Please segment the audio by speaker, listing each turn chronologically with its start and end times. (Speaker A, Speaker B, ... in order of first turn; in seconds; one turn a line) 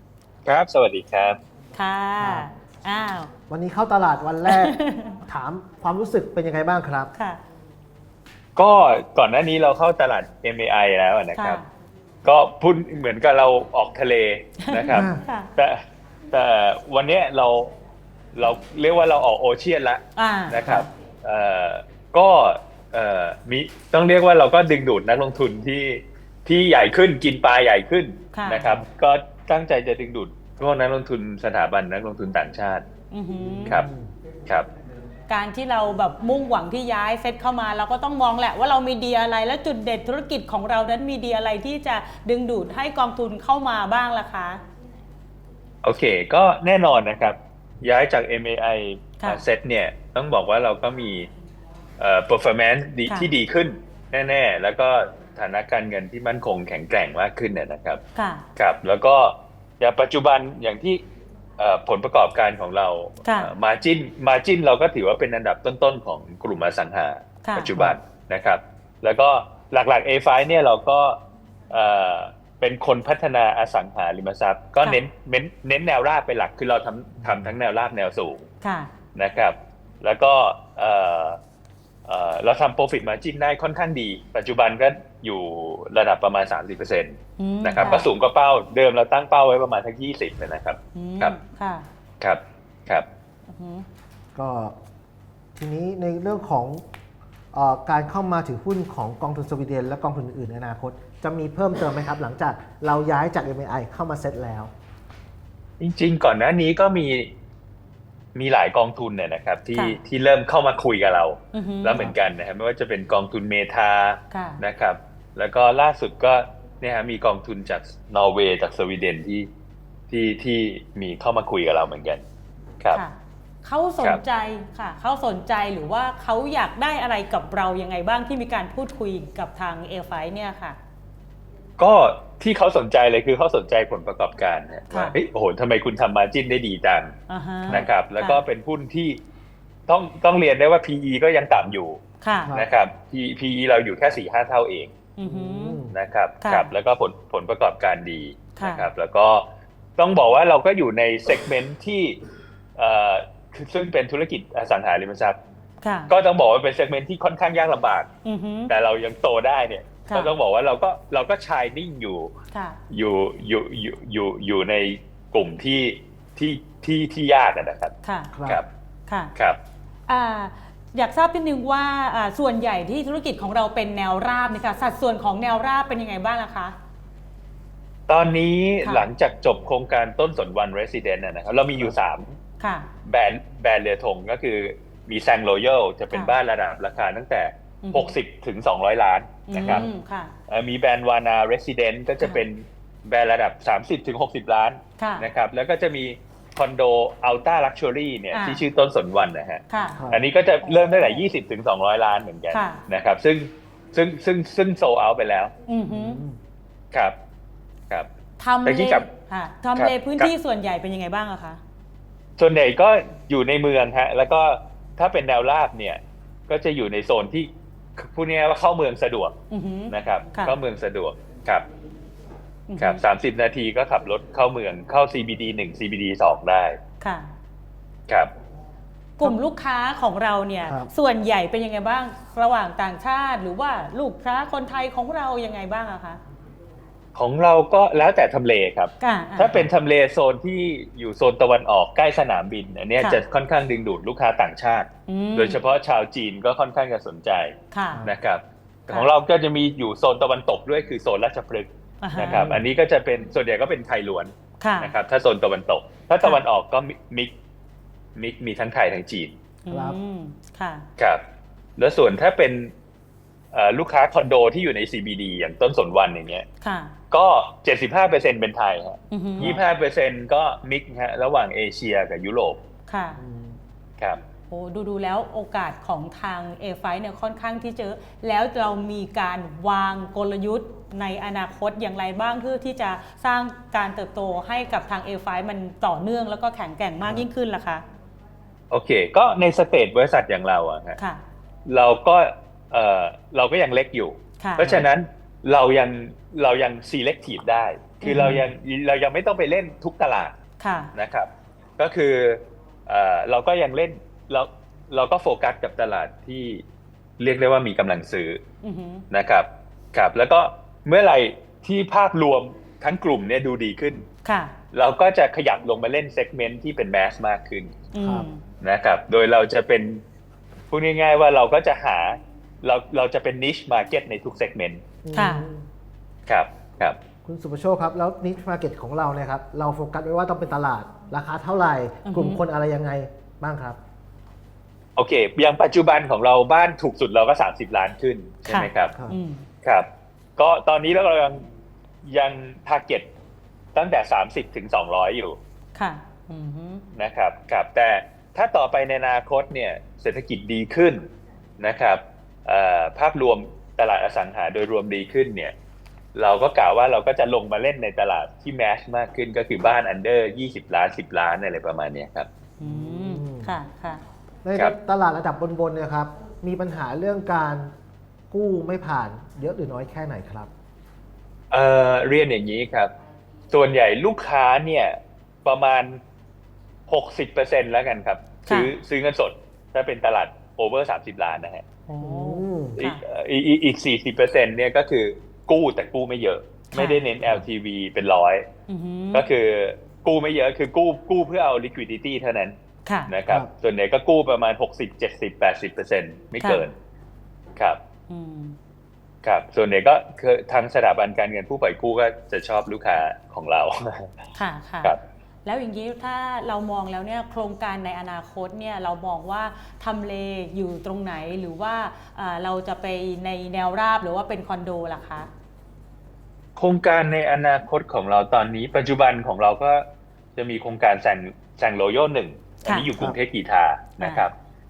Speaker A: 0.5-1.4
Speaker B: 1.8-3.3
Speaker C: 2.2-2.5
Speaker C: 3.5-7.1
Speaker B: 4.5-5.2
Speaker A: 8.6-11.6
Speaker B: 11.4-11.7
Speaker A: 12.2-17.7
Speaker B: 14.6-15.5
Speaker C: 14.9-15.2
Speaker A: 18.4-32.8
Speaker B: 20.2-20.9
Speaker B: 28.3-28.7
Speaker B: 33.1-33.8
Speaker C: 33.4-34.1
Speaker B: 35.3-44.6
Speaker A: 45.8-51.3
Speaker B: 49.2-49.4
Speaker A: 52.0-58.0
Speaker B: 58.1-58.5
Speaker A: 58.6-61.0
Speaker A: 61.6-71.2
Speaker B: 63.2-63.5
Speaker B: 67.4-67.9
Speaker A: 71.7-78.5
Speaker C: 77.2-77.5
Speaker B: 78.6-78.9
Speaker A: 79.2-81.4
Speaker A: 82.1-91.4
Speaker B: 87.4-88.1
Speaker B: 91.0-91.8
Speaker A: 92.2-93.1
Speaker B: 93.5-93.9
Speaker C: 94.3-94.7
Speaker C: 95.6-96.8
Speaker C: 97.5-104.7
Speaker A: 105.8-107.3
Speaker A: 108.3-119.5
Speaker B: 111.5-112.1
Speaker B: 114.3-114.6
Speaker A: 120.1-122.2
Speaker B: 122.9-130.8
Speaker A: 131.8-137.1
Speaker B: 134.9-135.2
Speaker B: 137.3-138.4
Speaker A: 137.7-139.2
Speaker A: 139.9-144.9
Speaker B: 142.2-142.5
Speaker C: 142.4-142.7
Speaker B: 145.2-145.8
Speaker C: 145.2-146.0
Speaker A: 145.9-152.2
Speaker B: 146.4-146.7
Speaker B: 148.6-148.9
Speaker A: 152.8-155.4
Speaker B: 155.8-156.1
Speaker A: 156.1-158.1
Speaker B: 158.2-158.7
Speaker A: 158.7-162.3
Speaker B: 160.1-160.3
Speaker B: 162.5-162.8
Speaker A: 162.9-167.9
Speaker B: 168.0-168.3
Speaker C: 168.3-168.6
Speaker B: 169.1-169.3
Speaker B: 170.1-176.8
Speaker A: 178.1-182.4
Speaker B: 178.8-179.1
Speaker B: 182.6-182.9
Speaker A: 183.1-189.9
Speaker B: 187.8-188.2
Speaker B: 189.5-190.3
Speaker C: 189.6-189.9
Speaker A: 190.5-205.5
Speaker B: 195.0-195.3
Speaker B: 198.3-198.6
Speaker B: 199.7-200.0
Speaker C: 200.0-200.3
Speaker B: 202.5-202.8
Speaker B: 205.7-206.2
Speaker C: 205.9-206.4
Speaker B: 208.4-211.6
Speaker A: 208.6-209.1
Speaker A: 209.8-210.3
Speaker A: 212.4-219.3
Speaker B: 219.5-220.6
Speaker A: 219.9-221.7
Speaker B: 222.7-223.0
Speaker A: 222.8-226.8
Speaker B: 227.0-227.3
Speaker B: 229.2-236.2
Speaker A: 237.2-257.3
Speaker B: 239.0-239.6
Speaker B: 245.1-245.6
Speaker B: 247.7-248.0
Speaker C: 247.9-248.2
Speaker B: 252.0-252.6
Speaker C: 252.2-252.7
Speaker B: 254.6-254.9
Speaker A: 258.2-259.3
Speaker B: 259.6-260.9
Speaker C: 259.7-260.0
Speaker A: 261.8-262.7
Speaker A: 263.5-266.5
Speaker B: 266.6-266.9
Speaker A: 267.1-272.6
Speaker B: 269.1-269.5
Speaker B: 272.9-273.2
Speaker C: 273.2-273.6
Speaker B: 274.5-287.8
Speaker A: 288.7-291.0
Speaker A: 291.7-300.4
Speaker B: 294.4-294.8
Speaker B: 298.0-298.4
Speaker C: 298.1-298.4
Speaker B: 300.6-300.9
Speaker A: 300.9-306.6
Speaker A: 307.2-308.4
Speaker B: 308.6-309.1
Speaker A: 309.1-314.1
Speaker B: 314.2-314.6
Speaker A: 314.7-317.8
Speaker B: 317.9-318.4
Speaker C: 318.0-318.3
Speaker A: 318.6-320.0
Speaker A: 320.7-324.8
Speaker C: 325.0-325.6
Speaker B: 325.1-325.5
Speaker A: 326.3-327.0
Speaker C: 327.2-333.8
Speaker B: 332.1-332.4
Speaker A: 335.0-338.9
Speaker B: 338.5-339.4
Speaker A: 339.6-341.4
Speaker A: 342.1-343.1
Speaker A: 343.8-345.4
Speaker B: 345.8-346.8
Speaker A: 346.9-351.1
Speaker A: 351.6-355.5
Speaker A: 356.1-362.3
Speaker B: 362.6-364.0
Speaker C: 362.6-363.6
Speaker C: 364.4-367.7
Speaker C: 368.3-370.5
Speaker A: 371.5-372.9
Speaker A: 373.5-376.0
Speaker A: 376.9-381.6
Speaker B: 378.5-378.7
Speaker B: 381.9-383.0
Speaker C: 382.0-382.8
Speaker A: 382.8-388.5
Speaker B: 386.7-387.0
Speaker B: 388.7-389.3
Speaker A: 389.1-392.6
Speaker B: 392.9-393.1
Speaker A: 393.1-396.8
Speaker B: 396.4-396.7
Speaker B: 398.1-398.6
Speaker A: 399.2-404.1
Speaker B: 404.4-415.3
Speaker A: 416.6-419.8
Speaker A: 420.4-424.3
Speaker B: 422.6-422.9
Speaker B: 424.0-424.3